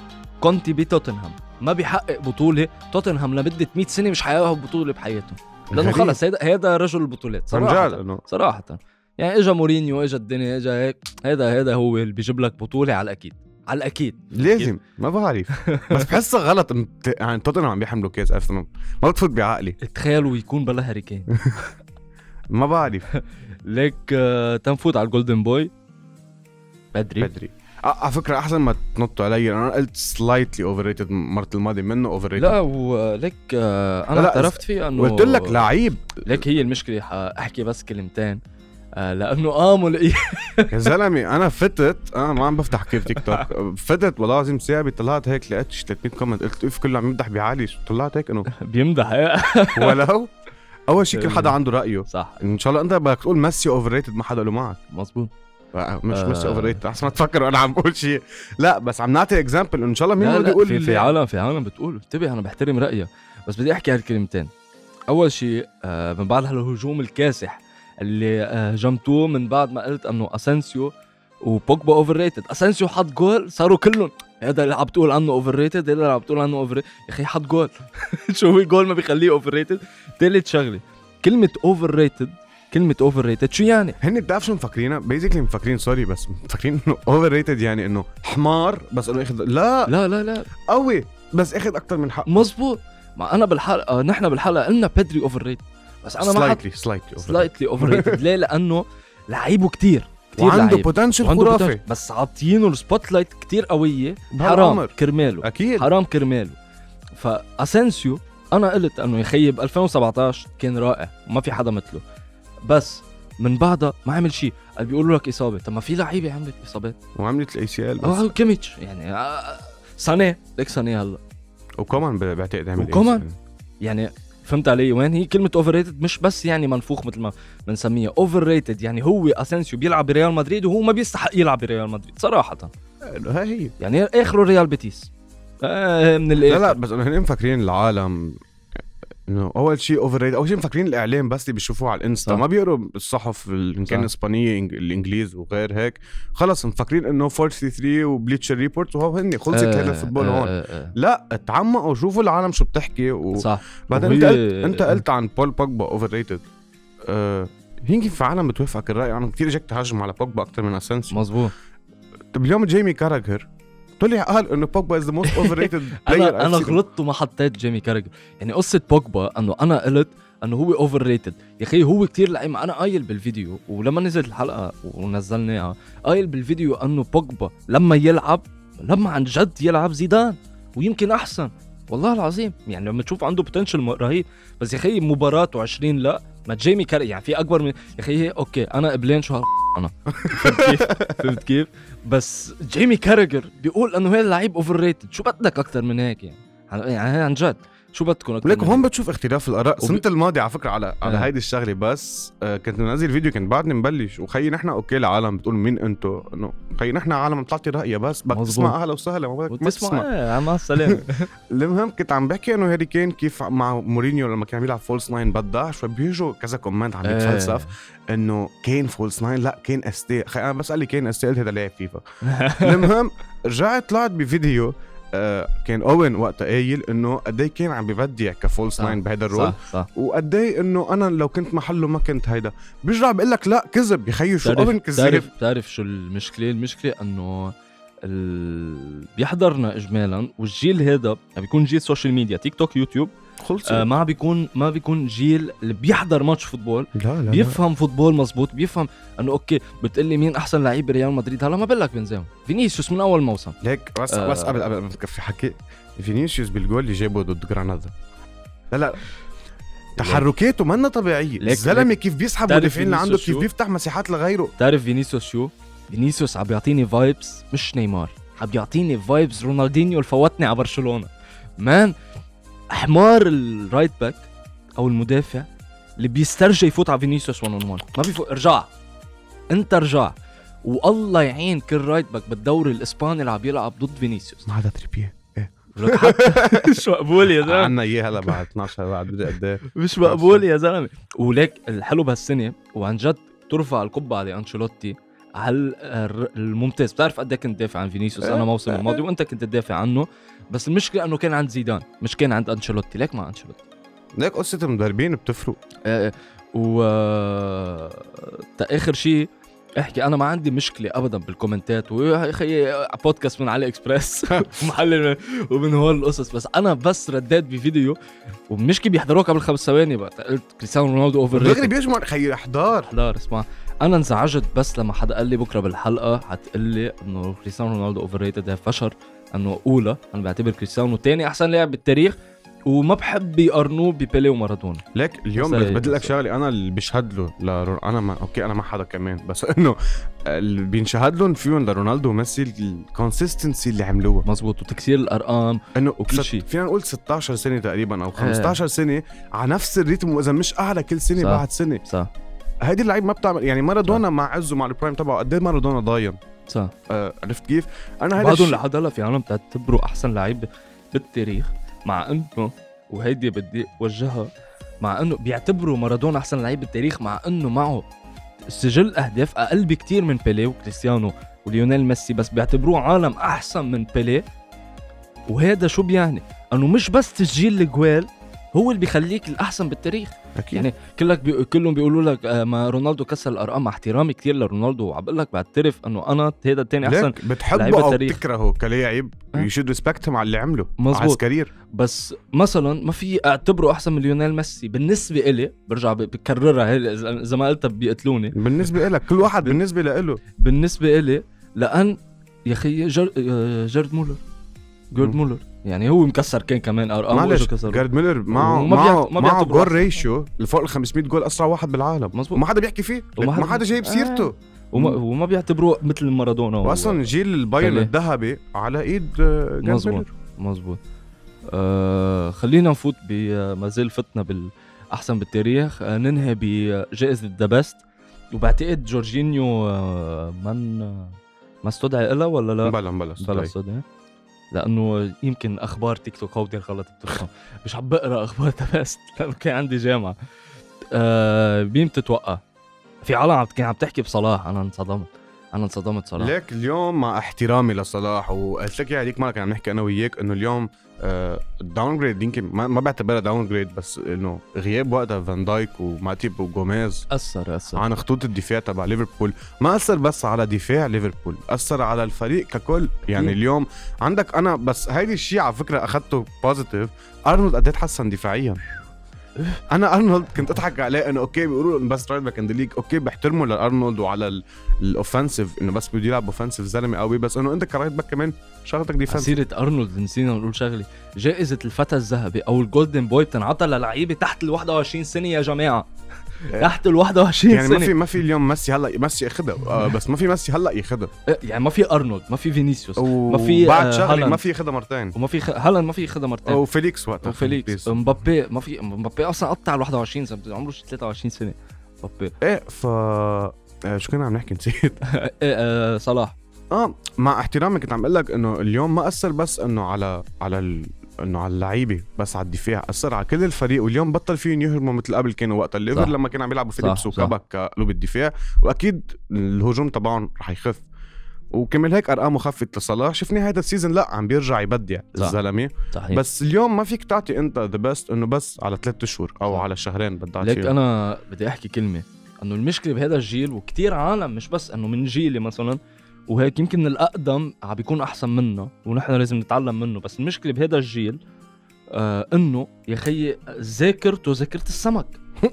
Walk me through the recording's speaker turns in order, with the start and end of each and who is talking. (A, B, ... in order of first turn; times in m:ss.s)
0:00.4-0:14.7 A
0:05.7-0:06.2 B
0:07.5-0:08.2 B
0:14.3-0:19.8 B
0:15.6-0:16.1 A
0:19.8-0:21.3 A
0:22.5-0:23.0 B
0:23.1-0:25.7 A
0:26.9-0:27.3 A
0:27.2-0:32.6 B
0:32.4-0:35.6 A
0:34.1-0:36.4 B
0:36.2-0:38.4 A
0:39.0-0:40.9 A
0:40.7-0:48.5 B
0:43.0-0:43.5 A
0:48.5-0:50.0 A
0:49.8-0:50.3 B
0:50.9-0:54.8 B
0:51.1-0:52.4 A
0:54.9-0:55.3 A
0:55.7-1:01.1 B
0:56.1-0:56.8 A
1:00.2-1:04.5 A
1:05.1-1:10.9 A
1:11.4-1:24.0 A
1:24.0-1:29.9 B
1:29.9-1:30.5 A
1:30.5-1:32.4 B
1:32.3-1:36.6 A
1:36.2-1:38.2 B
1:37.2-1:46.6 A
1:40.4-1:41.8 B
1:44.3-1:45.9 B
1:47.1-1:52.0 A
1:52.7-1:57.0 A
1:57.2-1:58.3 B
1:58.0-2:01.2 A
2:01.8-2:03.4 B
2:02.8-2:03.2 A
2:03.8-2:12.7 A
2:13.1-2:13.7 B
2:13.8-2:15.1 A
2:15.6-2:16.8 A
2:16.5-2:18.4 B
2:19.3-2:36.5 B
2:29.5-2:30.9 A
2:33.4-2:35.0 A
2:37.1-2:41.3 B
2:41.1-2:41.5 A
2:42.3-2:43.5 B
2:44.0-2:46.8 B
2:45.2-3:18.8 A
3:10.2-3:11.2 B
3:18.4-3:30.1 B
3:28.3-3:28.8 A
3:29.5-3:31.3 A
3:30.7-3:42.0 B
3:37.0-3:37.7 A
3:42.2-3:42.9 A
3:42.6-3:55.3 B
3:48.8-3:49.9 A
3:54.4-4:03.1 A
4:03.4-4:03.9 B
4:03.6-4:13.6 A
4:06.9-4:07.6 B
4:13.6-4:17.9 B
4:14.1-4:14.7 A
4:18.7-4:19.0 B
4:20.0-4:24.5 B
4:20.0-4:20.3 A
4:21.4-4:21.9 A
4:22.5-4:23.5 A
4:24.6-4:31.9 A
4:32.7-4:34.3 A
4:34.8-4:35.5 A
4:36.0-4:38.7 A
4:39.5-4:44.5 A
4:44.5-4:46.8 B
4:45.8-4:47.8 A
4:47.4-4:50.4 B
4:49.7-5:03.6 A
4:58.2-4:59.0 B
5:04.2-5:05.6 B
5:05.8-5:09.3 A
5:09.8-5:18.0 A
5:18.5-5:21.7 A
5:21.3-5:22.9 B
5:22.9-5:32.2 A
5:32.7-5:34.8 A
5:35.0-5:44.2 B
5:35.4-5:36.1 A
5:44.2-5:46.4 A
5:45.8-5:51.8 B
5:48.2-5:48.6 A
5:51.2-5:52.1 A
5:52.6-5:56.2 B
5:56.5-5:56.7 A
5:56.9-5:58.6 B
5:58.2-6:04.3 A
6:04.8-6:07.8 A
6:08.5-6:14.2 A
6:15.3-6:28.2 A
6:20.4-6:20.7 B
6:26.8-6:31.5 B
6:30.8-6:31.2 A
6:31.7-6:38.8 A
6:38.3-6:40.2 B
6:40.4-6:44.2 A
6:44.9-6:50.0 A
6:47.1-6:55.0 B
6:52.1-6:52.4 A
6:53.2-6:57.0 A
6:56.6-7:00.1 B
6:57.6-6:57.9 A
6:59.6-7:00.8 A
7:01.5-7:07.8 A
7:08.3-7:13.8 A
7:12.6-7:13.5 B
7:14.5-7:20.2 A
7:20.9-7:22.4 A
7:23.0-7:26.3 A
7:26.2-7:37.0 B
7:37.1-7:37.8 A
7:37.7-7:48.6 B
7:49.7-7:59.4 B
7:59.1-8:05.9 A
8:06.4-8:07.9 A
8:07.5-8:11.1 B
8:11.3-8:14.4 A
8:13.0-8:15.2 B
8:15.2-8:16.6 A
8:16.5-8:18.0 B
8:17.2-8:22.3 A
8:22.4-8:25.0 B
8:25.1-8:26.4 A
8:26.7-8:40.8 B
8:36.8-8:37.3 A
8:41.5-8:50.7 B
8:45.9-8:46.2 A
8:50.4-9:01.2 A
9:01.9-9:05.2 A